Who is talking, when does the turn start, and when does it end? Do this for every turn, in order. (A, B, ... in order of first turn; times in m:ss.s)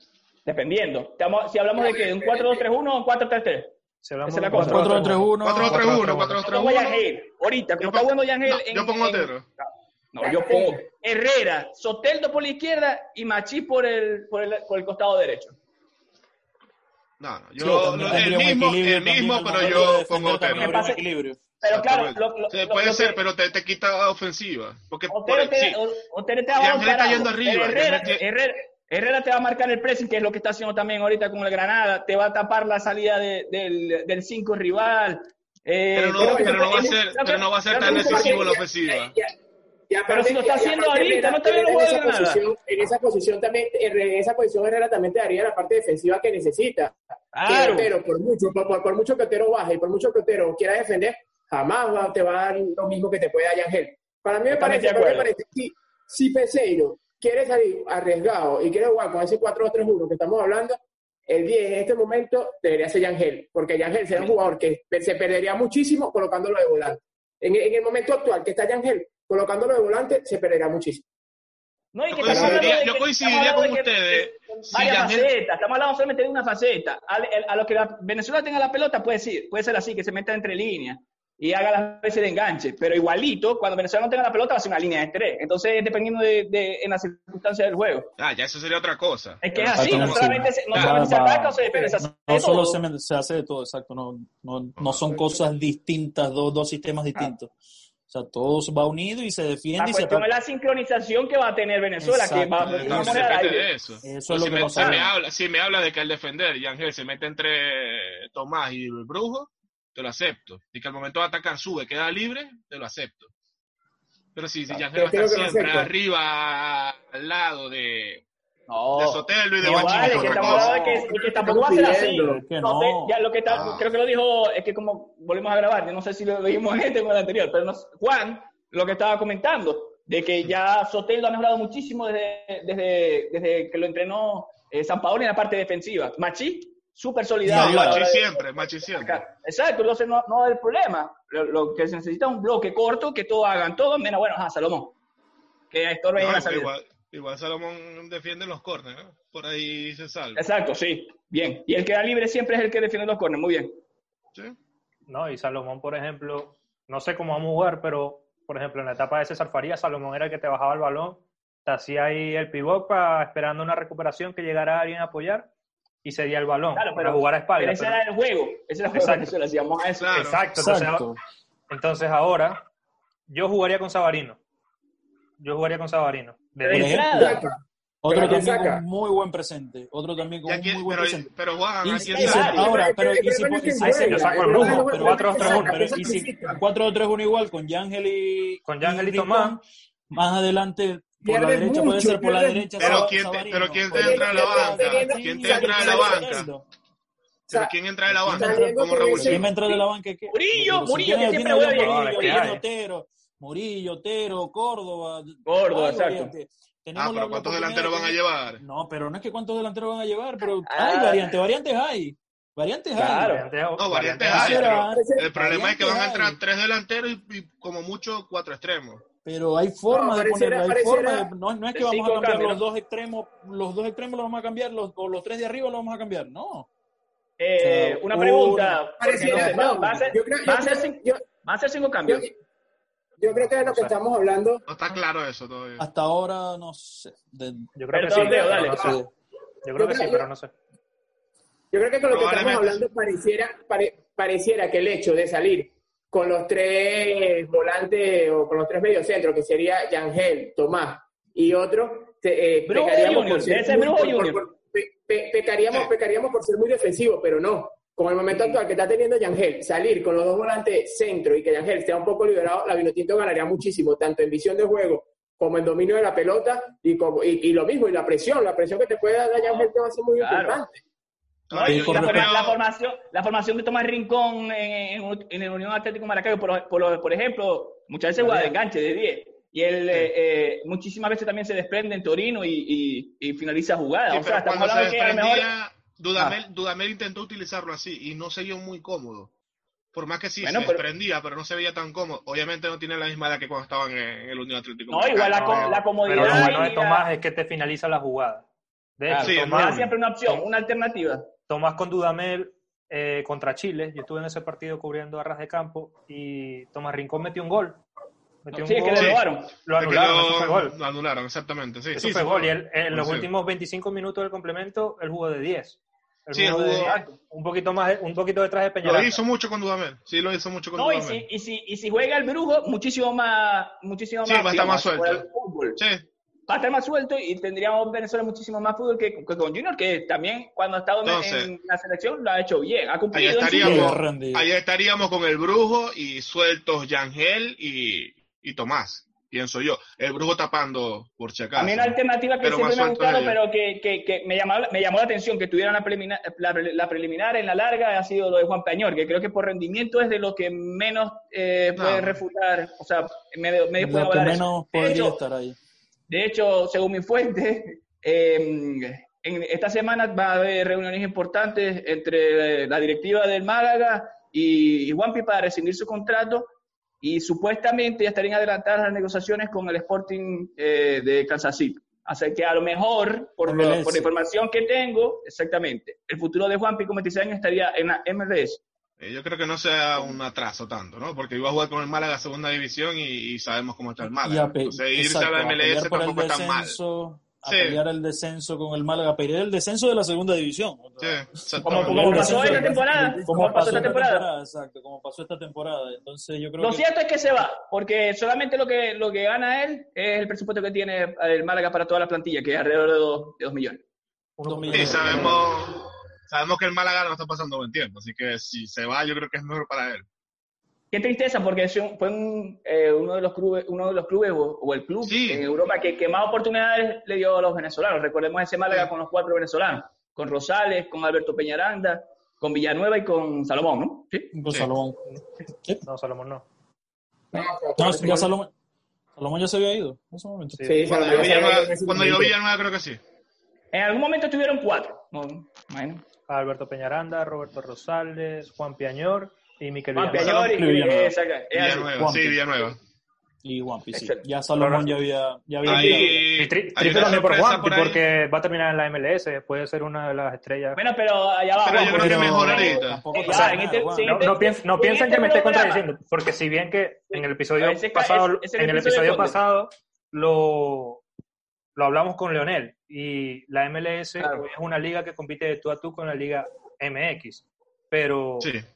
0:00.4-0:03.7 A
0:01.8-0:02.6 B
0:04.0-0:05.3 C
0:04.3-0:05.2 A
0:04.6-0:06.4 D
0:05.4-0:07.1 E
0:06.4-0:15.6 A
0:07.8-0:09.5 E
0:10.2-0:10.8 B
0:17.2-0:20.9 E
0:17.6-0:21.4 D
0:20.5-0:21.0 A
0:21.6-0:23.2 A
0:21.6-0:25.8 E
0:25.1-0:38.6 A
0:26.5-0:28.2 E
0:35.9-0:39.2 E
0:36.2-0:37.0 B
0:37.7-0:39.3 B
0:39.9-1:11.0 B
0:40.1-0:42.4 A
0:47.3-0:47.9 A
0:54.5-0:55.3 A
1:11.9-1:28.1 A
1:12.1-1:15.3 E
1:12.3-1:12.8 B
1:28.2-1:31.0 E
1:29.4-1:32.8 A
1:29.8-1:37.5 D
1:34.8-1:35.2 E
1:38.1-1:40.3 D
1:39.8-1:43.7 A
1:42.0-1:43.3 D
1:42.6-1:53.3 E
1:44.0-1:45.1 D
1:44.6-1:45.1 A
1:54.4-1:58.2 E
1:54.7-1:55.9 B
1:58.7-2:25.0 A
1:58.9-2:01.1 E
1:59.6-2:00.5 D
2:00.1-2:02.4 B
2:02.2-2:03.2 D
2:03.5-2:03.9 E
2:17.5-2:18.0 D
2:17.5-2:19.2 E
2:25.7-2:26.7 A
2:26.2-2:30.5 E
2:30.4-2:33.8 A
2:35.1-2:45.5 C
2:46.0-2:48.0 C
2:46.8-2:50.2 A
2:48.9-2:49.3 C
2:50.0-2:50.4 E
2:50.1-2:51.1 C
2:50.6-2:51.2 D
2:51.7-2:52.6 C
2:53.3-2:54.4 C
2:55.4-2:57.2 C
2:56.6-2:57.4 A
2:56.7-2:57.4 D
2:57.1-2:57.5 B
2:58.0-3:01.3 D
2:58.1-2:58.8 B
3:00.5-3:02.6 E
3:01.8-3:16.6 D
3:02.0-3:02.9 A
3:02.3-3:06.6 B
3:03.8-3:06.1 C
3:08.7-3:09.6 C
3:11.2-3:13.2 B
3:12.8-3:16.5 E
3:13.9-3:16.4 B
3:17.5-3:19.5 E
3:17.5-3:19.5 B
3:18.1-3:33.4 D
3:20.3-3:22.4 A
3:21.7-3:22.6 C
3:25.5-3:26.3 A
3:27.0-3:28.6 E
3:30.4-3:31.4 A
3:33.0-3:33.5 A
3:33.2-3:34.7 C
3:33.8-3:39.0 E
3:34.3-3:36.4 D
3:34.8-3:35.3 B
3:39.2-3:46.7 D
3:39.9-3:41.3 B
3:41.7-3:42.6 A
3:47.4-3:52.3 A
3:47.6-3:48.8 D
3:49.0-3:51.2 B
3:49.2-3:49.6 C
3:52.1-3:52.3 B
3:53.2-3:54.6 B
3:53.6-3:53.9 C
3:54.7-3:55.8 E
3:55.8-3:57.7 D
3:57.8-3:59.0 C
3:57.9-3:59.0 A
3:58.1-3:58.8 B
3:58.6-3:59.1 D
3:59.6-4:00.5 C
3:59.8-4:00.3 B
4:01.7-4:30.8 B
4:02.1-4:02.8 E
4:12.7-4:14.4 A
4:18.3-4:18.6 A
4:29.4-4:30.6 A
4:31.5-4:32.6 E
4:31.5-4:45.5 A
4:31.6-4:32.3 D
4:38.2-4:38.5 D
4:44.1-4:49.3 E
4:49.9-4:56.5 E
4:50.4-4:50.9 A
4:54.9-4:57.0 A
4:55.3-4:58.5 C
4:59.0-5:00.5 C
4:59.1-5:01.3 A
4:59.2-4:59.9 E
5:01.5-5:07.8 C
5:08.4-5:10.8 C
5:08.6-5:09.5 A
5:09.0-5:09.2 E
5:09.8-5:13.3 E
5:12.0-5:19.2 C
5:16.3-5:16.9 E
5:16.8-5:17.1 A
5:18.8-5:21.2 E
5:20.8-5:25.8 A
5:24.2-5:25.3 E
5:25.8-5:26.1 E
5:26.5-5:34.0 A
5:31.0-5:31.5 E
5:33.1-5:43.4 E
5:33.6-5:34.5 D
5:41.6-5:55.2 A
5:51.8-5:52.2 E
5:53.8-5:55.6 D
5:56.1-6:06.5 A
6:07.0-6:18.6 A
6:13.5-6:14.1 D
6:19.0-6:26.8 E
6:24.2-6:36.8 D
6:27.5-6:27.8 E
6:31.0-6:32.6 E
6:31.6-6:34.2 A
6:31.7-6:32.9 C
6:36.6-6:43.8 A
6:44.4-6:45.3 C
6:44.4-6:45.3 D
6:44.7-6:50.0 E
6:50.9-7:04.3 A
6:55.0-6:55.5 E
7:04.3-7:05.0 D
7:05.8-7:06.5 C
7:07.3-7:08.3 B
7:07.8-7:08.5 D
7:09.2-7:10.7 D
7:10.6-7:10.9 C
7:10.6-7:12.4 B
7:10.9-7:13.0 E
7:13.7-7:16.0 A
7:16.3-7:20.4 C
7:20.0-7:21.9 A
7:20.1-7:21.2 D
7:20.2-7:20.6 E
7:21.5-7:22.8 E
7:22.0-7:22.4 D
7:23.4-7:26.3 D
7:23.9-7:24.2 A
7:24.6-7:25.0 C
7:25.6-7:28.0 E
7:25.7-7:30.8 C
7:30.8-7:35.9 A
7:31.6-7:33.1 E
7:31.9-7:34.0 D
7:33.2-7:41.0 C
7:37.1-7:39.4 A
7:41.8-7:48.5 C
7:48.4-7:48.7 E